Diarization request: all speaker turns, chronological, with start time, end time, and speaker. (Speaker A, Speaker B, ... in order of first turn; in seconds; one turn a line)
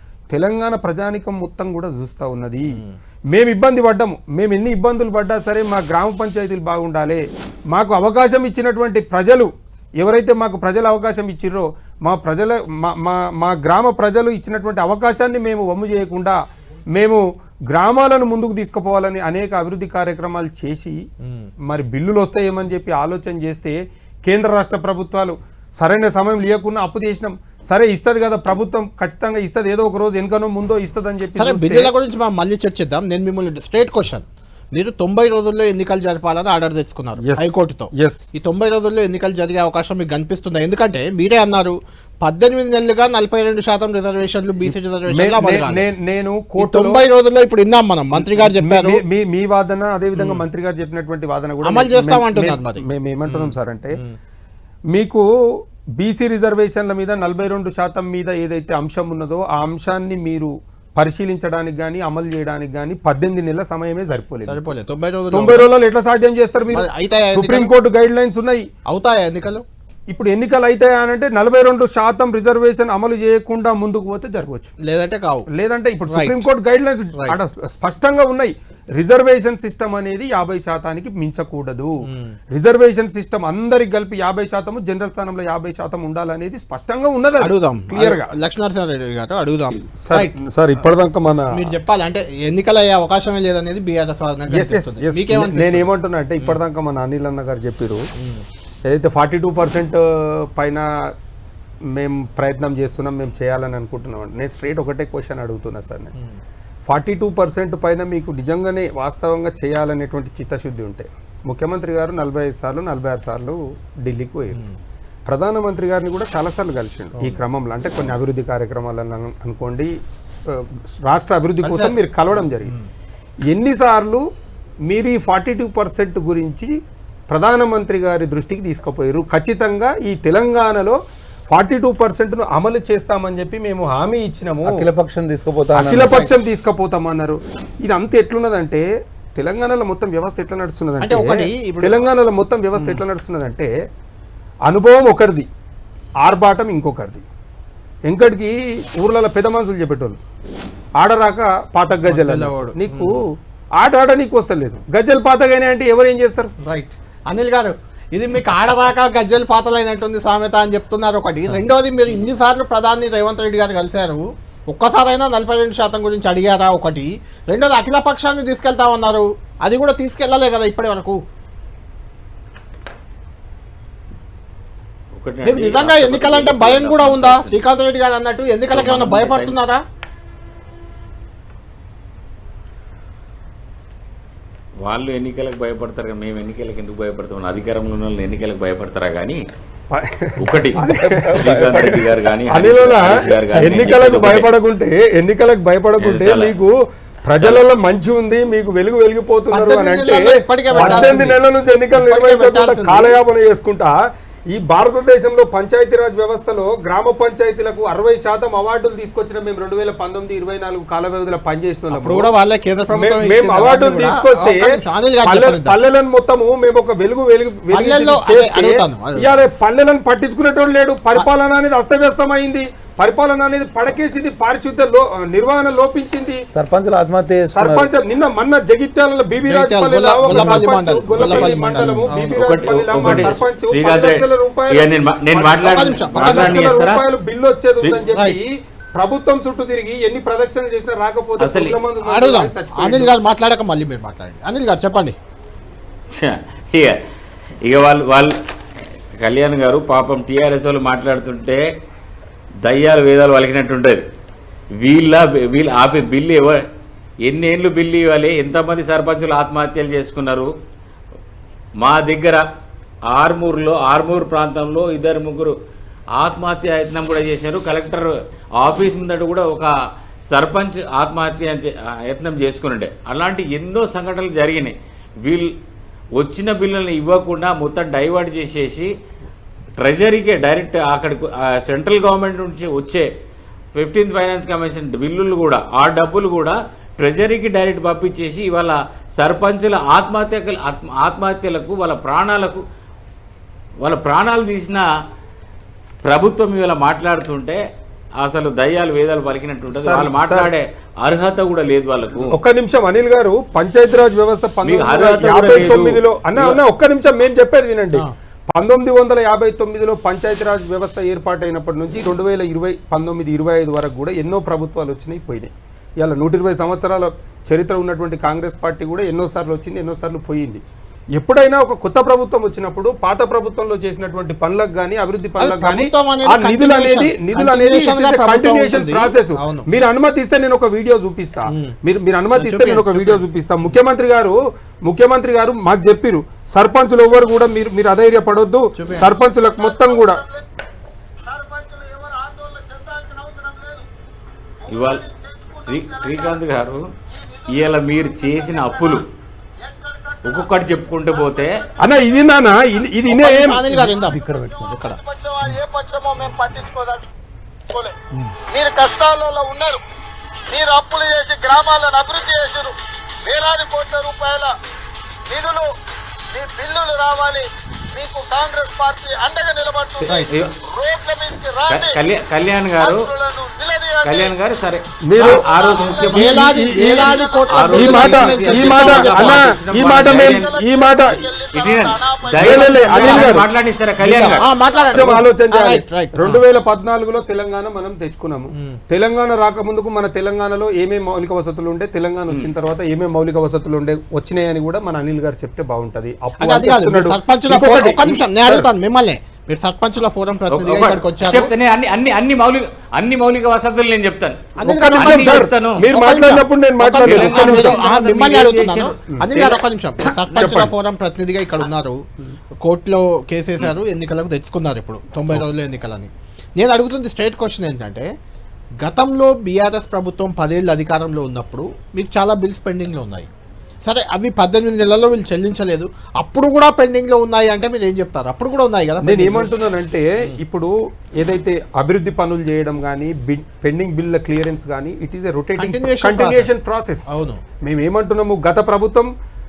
Speaker A: 0.3-16.4
Speaker A: 16.9-21.0
Speaker A: 21.6-31.9
Speaker B: 31.4-45.9
Speaker A: 37.2-38.3
Speaker A: 44.7-47.0
Speaker B: 46.6-49.0
Speaker A: 48.1-54.0
Speaker B: 50.1-50.4
Speaker B: 51.6-54.2
Speaker A: 54.9-55.2
Speaker A: 56.0-64.6
Speaker B: 64.5-65.7
Speaker A: 65.3-68.7
Speaker B: 66.7-67.7
Speaker B: 68.9-69.6
Speaker A: 70.1-74.7
Speaker B: 74.8-75.5
Speaker A: 75.5-81.9
Speaker B: 76.1-76.4
Speaker B: 82.1-82.4
Speaker A: 82.5-88.3
Speaker B: 87.4-90.3
Speaker A: 90.0-91.5
Speaker B: 91.5-95.9
Speaker A: 94.5-98.0
Speaker B: 98.2-98.4
Speaker A: 98.9-100.8
Speaker A: 101.9-106.1
Speaker A: 106.9-114.6
Speaker A: 115.3-119.9
Speaker A: 120.5-122.7
Speaker B: 121.6-122.0
Speaker A: 123.5-124.2
Speaker A: 124.9-126.7
Speaker A: 127.3-131.0
Speaker A: 131.5-134.9
Speaker C: 134.6-136.3
Speaker A: 135.7-143.7
Speaker B: 141.0-142.1
Speaker B: 142.8-143.0
Speaker A: 144.7-145.5
Speaker A: 146.2-147.2
Speaker A: 148.1-150.2
Speaker A: 151.0-153.2
Speaker B: 152.1-153.1
Speaker A: 153.8-156.5
Speaker B: 156.6-171.2
Speaker D: 175.2-177.6
Speaker B: 175.4-179.8
Speaker D: 178.7-179.6
Speaker D: 184.8-189.4
Speaker A: 189.9-196.7
Speaker D: 190.4-190.8
Speaker C: 190.8-192.0
Speaker D: 191.4-194.5
Speaker D: 196.0-196.5
Speaker A: 197.2-203.9
Speaker B: 199.5-201.4
Speaker C: 200.8-201.2
Speaker B: 201.9-203.2
Speaker A: 204.5-212.3
Speaker B: 211.9-215.7
Speaker A: 212.9-214.7
Speaker A: 215.2-226.4
Speaker B: 217.7-219.4
Speaker C: 226.5-227.9
Speaker A: 227.5-243.1
Speaker B: 229.4-232.4
Speaker C: 230.3-230.7
Speaker C: 231.2-232.2
Speaker D: 232.4-237.0
Speaker B: 235.6-236.6
Speaker D: 237.8-238.1
Speaker D: 241.4-241.8
Speaker B: 242.0-245.2
Speaker D: 246.1-247.0
Speaker D: 247.6-248.3
Speaker D: 249.2-251.6
Speaker D: 252.6-254.0
Speaker D: 254.8-256.6
Speaker D: 257.2-260.5
Speaker D: 261.8-262.4
Speaker D: 263.1-265.5
Speaker D: 266.1-269.7
Speaker D: 270.3-275.5
Speaker D: 276.2-278.9
Speaker D: 279.8-283.1
Speaker D: 283.7-292.6
Speaker D: 293.8-294.8
Speaker D: 296.0-297.6
Speaker D: 298.2-302.3
Speaker A: 299.7-300.5
Speaker A: 302.3-320.6
Speaker D: 304.6-306.6
Speaker A: 321.2-340.2
Speaker B: 325.4-329.7
Speaker B: 331.5-331.7
Speaker B: 332.4-333.2
Speaker B: 338.8-339.1
Speaker E: 339.4-340.5
Speaker E: 341.2-343.9
Speaker E: 344.6-346.4
Speaker D: 344.7-346.8
Speaker E: 347.1-349.0
Speaker D: 347.5-349.1
Speaker E: 349.6-352.3
Speaker D: 350.2-351.7
Speaker A: 351.8-353.9
Speaker B: 353.1-355.0
Speaker C: 353.9-354.8
Speaker E: 354.0-357.1
Speaker E: 357.7-359.8
Speaker E: 360.5-364.5
Speaker E: 365.3-365.7
Speaker E: 366.3-372.0
Speaker D: 370.0-370.6
Speaker D: 371.7-373.1
Speaker E: 372.8-374.3
Speaker D: 374.0-376.5
Speaker A: 375.1-377.2
Speaker E: 375.3-376.1
Speaker B: 375.8-379.5
Speaker E: 376.9-378.0
Speaker D: 377.5-380.5
Speaker A: 377.7-381.2
Speaker E: 380.0-382.9
Speaker D: 381.5-384.5
Speaker A: 382.4-383.5
Speaker B: 382.8-383.4
Speaker B: 384.0-386.4
Speaker E: 384.7-385.0
Speaker A: 384.9-398.7
Speaker B: 396.4-401.5
Speaker D: 400.5-405.9
Speaker B: 404.6-412.0
Speaker A: 404.6-407.8
Speaker D: 407.0-409.0
Speaker A: 409.1-410.7
Speaker D: 410.3-410.6
Speaker B: 412.6-418.1
Speaker B: 418.8-423.3
Speaker B: 423.8-429.5
Speaker A: 429.0-437.1
Speaker B: 435.6-436.5
Speaker B: 437.1-437.4
Speaker A: 437.6-439.1